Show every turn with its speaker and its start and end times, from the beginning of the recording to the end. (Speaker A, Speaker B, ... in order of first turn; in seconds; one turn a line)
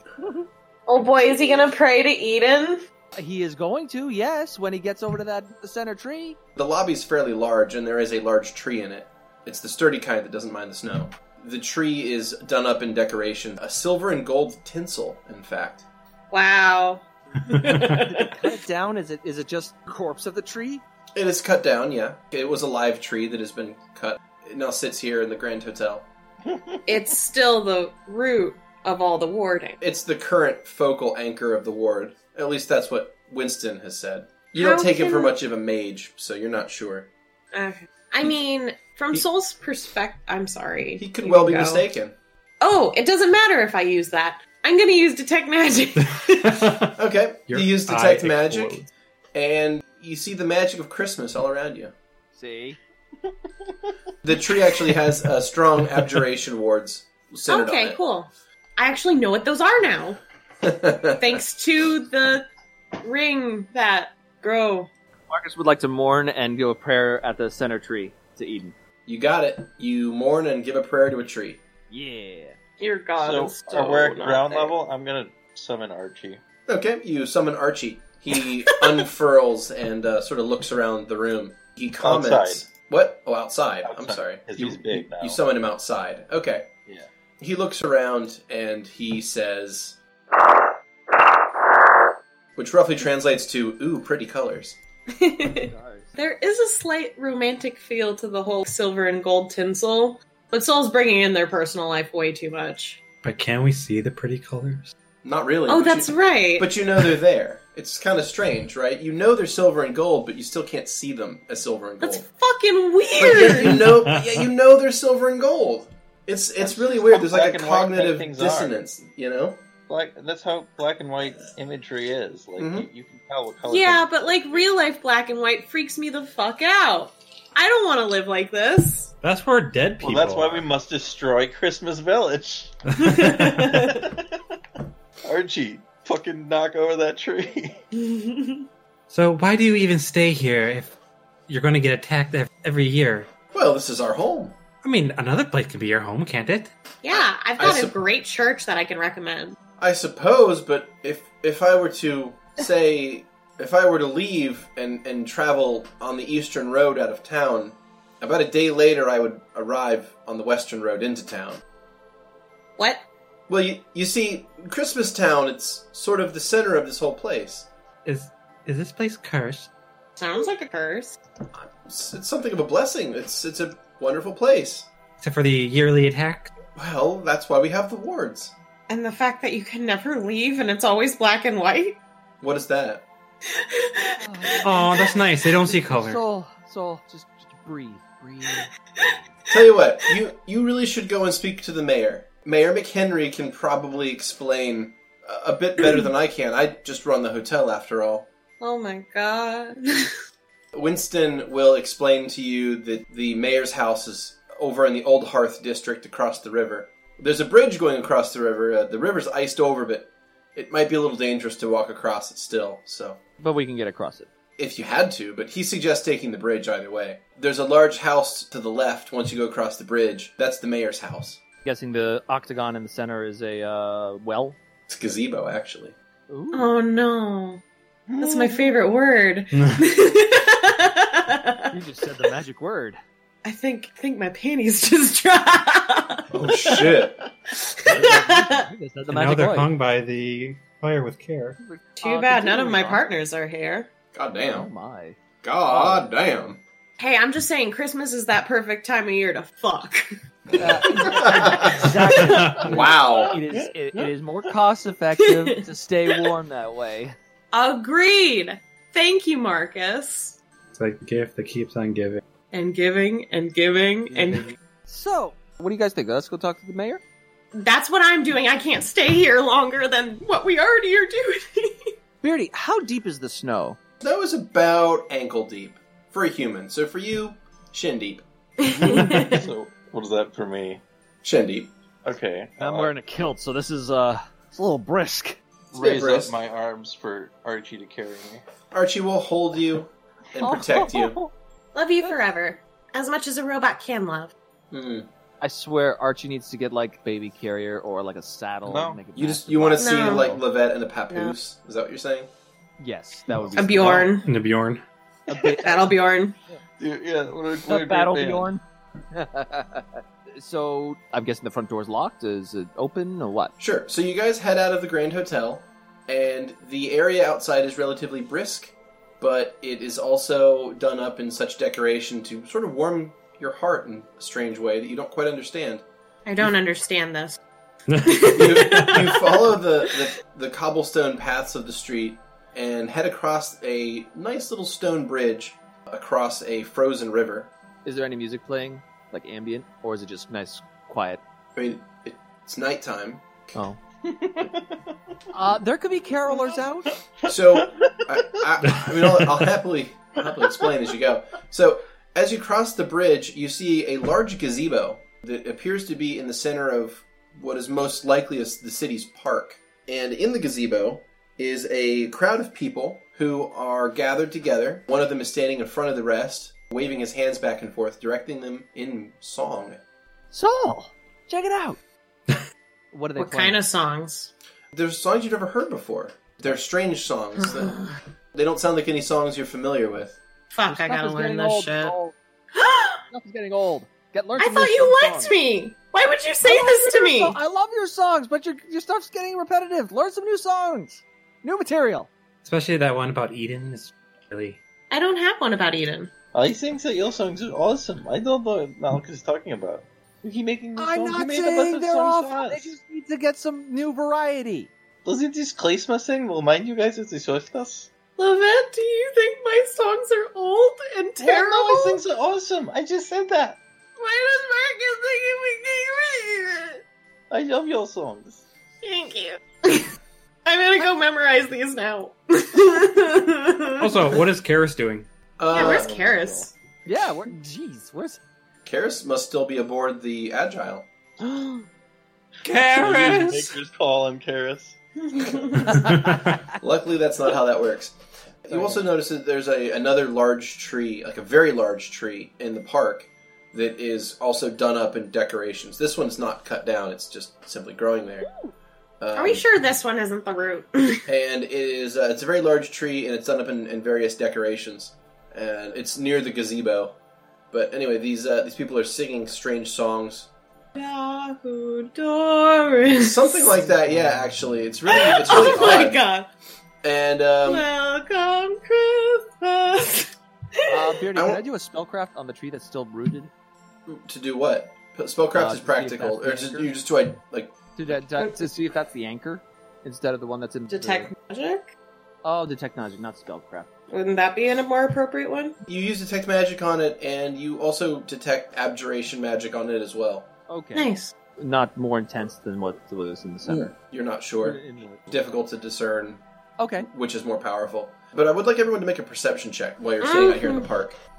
Speaker A: 0.9-2.8
Speaker B: 3.1-6.4
Speaker C: 6.6-15.8
Speaker A: 16.3-18.1
Speaker D: 17.6-18.0
Speaker B: 17.7-20.8
Speaker C: 21.1-26.1
Speaker E: 26.5-26.9
Speaker A: 26.9-29.8
Speaker C: 29.8-37.1
Speaker A: 34.6-35.4
Speaker A: 37.5-41.9
Speaker C: 41.0-42.1
Speaker A: 42.6-46.6
Speaker D: 46.0-47.0
Speaker C: 47.0-48.8
Speaker D: 47.5-48.9
Speaker C: 49.4-51.9
Speaker B: 52.3-52.8
Speaker E: 53.3-53.9
Speaker C: 54.2-58.0
Speaker A: 57.5-60.2
Speaker C: 60.6-61.4
Speaker A: 61.2-62.5
Speaker A: 63.0-64.9
Speaker B: 65.3-68.7
Speaker C: 69.1-71.6
Speaker B: 71.9-72.6
Speaker A: 72.8-74.7
Speaker E: 73.2-76.4
Speaker C: 76.7-86.7
Speaker E: 82.0-82.6
Speaker E: 83.8-85.4
Speaker C: 87.4-90.0
Speaker C: 92.6-94.8
Speaker A: 95.2-103.0
Speaker B: 95.6-96.2
Speaker D: 103.2-104.9
Speaker C: 105.2-112.3
Speaker A: 105.7-106.7
Speaker A: 112.0-113.8
Speaker C: 113.2-119.6
Speaker D: 113.5-114.4
Speaker E: 116.7-118.8
Speaker E: 119.9-124.6
Speaker C: 122.6-122.9
Speaker A: 123.7-129.1
Speaker D: 129.2-130.7
Speaker E: 130.0-134.4
Speaker A: 133.0-134.0
Speaker D: 133.0-133.5
Speaker E: 135.2-137.8
Speaker A: 137.9-138.7
Speaker D: 139.1-140.9
Speaker D: 141.5-143.3
Speaker C: 143.5-144.6
Speaker D: 144.8-146.7
Speaker A: 147.0-149.6
Speaker C: 147.1-147.9
Speaker C: 149.8-161.6
Speaker A: 162.8-163.0
Speaker C: 163.5-167.7
Speaker D: 168.1-169.7
Speaker A: 170.2-171.2
Speaker C: 171.5-174.9
Speaker D: 175.2-176.5
Speaker C: 176.8-178.5
Speaker A: 178.9-182.0
Speaker C: 182.4-183.1
Speaker A: 183.5-185.2
Speaker B: 184.2-188.7
Speaker D: 184.6-186.2
Speaker C: 189.5-198.3
Speaker A: 198.6-200.1
Speaker C: 200.7-213.2
Speaker B: 213.4-214.3
Speaker C: 214.6-221.4
Speaker B: 221.6-224.6
Speaker C: 224.9-225.9
Speaker B: 226.3-226.7
Speaker A: 226.5-227.6
Speaker E: 228.1-228.8
Speaker A: 228.2-231.7
Speaker D: 229.6-229.8
Speaker B: 231.7-233.0
Speaker A: 233.4-236.2
Speaker C: 236.3-237.2
Speaker A: 237.6-238.6
Speaker B: 237.8-239.7
Speaker D: 239.1-241.6
Speaker B: 241.6-243.0
Speaker A: 242.0-243.9
Speaker C: 244.1-244.7
Speaker B: 244.5-246.1
Speaker C: 245.4-246.6
Speaker A: 247.0-250.1
Speaker C: 250.5-251.9
Speaker B: 250.6-257.1
Speaker A: 250.8-252.2
Speaker D: 252.2-252.6
Speaker C: 252.6-253.4
Speaker E: 253.4-254.1
Speaker A: 255.2-255.6
Speaker A: 257.5-260.4
Speaker D: 260.7-262.2
Speaker A: 262.5-264.5
Speaker B: 264.1-267.0
Speaker A: 267.5-271.9
Speaker B: 272.2-273.8
Speaker C: 274.0-278.2
Speaker A: 278.6-279.4
Speaker E: 278.7-280.8
Speaker C: 281.2-281.7
Speaker E: 282.0-283.0
Speaker B: 282.6-285.4
Speaker C: 285.7-286.4
Speaker E: 285.7-288.4
Speaker C: 288.7-291.2
Speaker B: 290.4-291.3
Speaker A: 291.8-294.3
Speaker C: 294.7-295.1
Speaker B: 295.4-300.4
Speaker E: 298.6-299.0
Speaker C: 299.1-302.3
Speaker A: 299.8-300.3
Speaker B: 302.8-304.2
Speaker A: 303.6-304.3
Speaker D: 304.2-304.8
Speaker B: 305.3-305.9
Speaker E: 305.3-305.6
Speaker A: 305.6-306.4
Speaker E: 306.8-308.5
Speaker B: 307.6-308.6
Speaker B: 309.1-313.5
Speaker C: 313.6-325.8
Speaker A: 326.3-327.4
Speaker D: 327.9-329.0
Speaker A: 328.0-329.5
Speaker C: 328.3-337.5
Speaker B: 337.9-341.2
Speaker C: 341.6-343.6
Speaker E: 344.0-344.9
Speaker B: 345.3-346.9
Speaker E: 347.2-348.1
Speaker C: 347.3-369.8
Speaker D: 348.6-349.5
Speaker B: 370.3-371.8
Speaker B: 372.9-373.6
Speaker A: 373.1-374.3
Speaker C: 374.7-380.2
Speaker A: 377.4-377.9
Speaker A: 380.5-382.0
Speaker B: 380.7-382.1
Speaker A: 382.6-383.0
Speaker B: 383.1-385.4
Speaker A: 384.4-387.4
Speaker B: 386.4-392.1
Speaker D: 392.4-394.6
Speaker A: 394.9-396.1
Speaker E: 396.3-402.7
Speaker B: 400.8-404.7
Speaker E: 405.1-407.9
Speaker A: 408.2-412.0
Speaker E: 411.2-413.6
Speaker A: 414.0-416.8
Speaker E: 417.3-418.4
Speaker A: 418.8-419.9
Speaker A: 420.4-423.9
Speaker D: 423.8-425.1
Speaker C: 425.4-425.9
Speaker A: 425.5-426.5
Speaker E: 425.5-426.5
Speaker B: 426.9-428.2
Speaker C: 428.6-430.9
Speaker B: 431.2-431.6
Speaker B: 432.5-433.5
Speaker E: 432.5-434.8
Speaker B: 435.6-436.4
Speaker D: 435.8-436.2
Speaker C: 436.6-448.3
Speaker B: 438.5-438.9
Speaker C: 449.0-449.4
Speaker A: 449.1-451.1
Speaker C: 451.1-457.0
Speaker C: 457.5-460.3
Speaker A: 460.8-463.5
Speaker C: 463.0-466.0
Speaker A: 464.9-466.3
Speaker C: 466.8-467.7
Speaker A: 467.4-470.9
Speaker B: 470.7-473.3
Speaker C: 471.1-471.4
Speaker C: 473.9-477.6
Speaker B: 475.3-476.7
Speaker B: 477.8-481.1
Speaker A: 478.2-478.5
Speaker A: 480.7-481.7
Speaker B: 482.2-483.7
Speaker A: 483.9-485.6
Speaker C: 485.7-490.3
Speaker B: 490.5-493.8
Speaker A: 490.8-491.1
Speaker C: 493.5-496.2
Speaker B: 494.4-495.3
Speaker B: 496.6-496.9
Speaker C: 496.8-501.0
Speaker A: 500.0-500.7